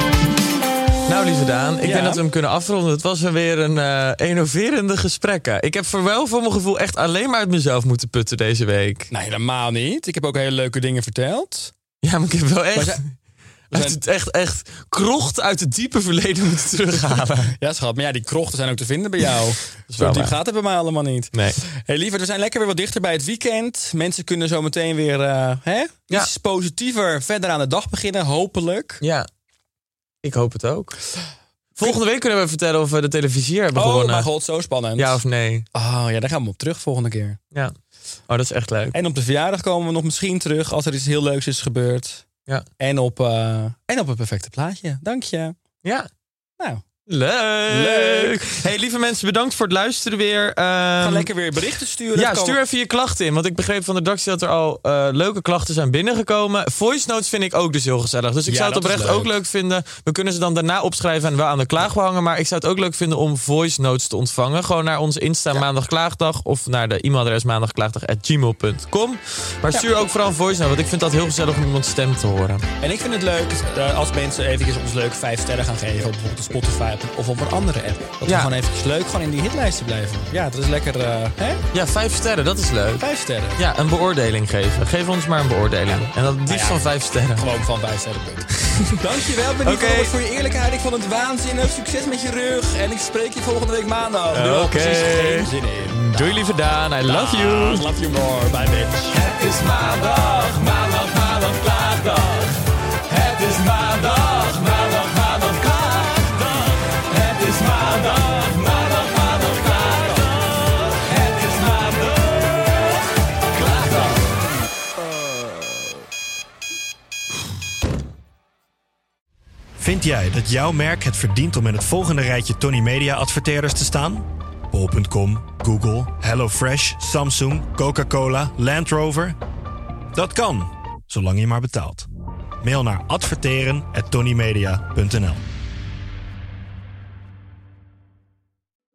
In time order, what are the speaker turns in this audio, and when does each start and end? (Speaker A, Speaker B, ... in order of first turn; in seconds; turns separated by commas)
Speaker A: 1.1-9.1, Speaker B: 1.8-2.2, Speaker B: 9.1-11.7, Speaker A: 12.0-13.0, Speaker B: 12.8-13.0, Speaker A: 13.7-17.5, Speaker B: 13.7-14.0, Speaker B: 17.6-29.0, Speaker A: 19.9-20.4, Speaker A: 21.3-21.6, Speaker A: 29.0-29.3, Speaker A: 30.2-31.0, Speaker A: 31.8-34.3, Speaker B: 33.7-35.2, Speaker A: 35.0-35.7, Speaker B: 35.7-37.4, Speaker A: 38.3-39.0, Speaker B: 38.9-42.2, Speaker B: 42.8-45.5, Speaker A: 45.8-46.1, Speaker A: 47.1-51.3, Speaker B: 47.7-48.4, Speaker B: 51.0-52.6, Speaker A: 52.1-72.7, Speaker B: 58.5-59.3, Speaker B: 72.8-81.6, Speaker A: 78.2-78.5, Speaker A: 81.7-87.5, Speaker B: 83.0-83.6, Speaker B: 85.9-86.8, Speaker B: 87.3-96.4, Speaker A: 89.6-90.1, Speaker A: 94.3-97.9, Speaker B: 97.0-99.2, Speaker A: 99.1-114.2, Speaker C: 119.8-129.4, Speaker C: 130.1-132.1, Speaker C: 132.6-135.4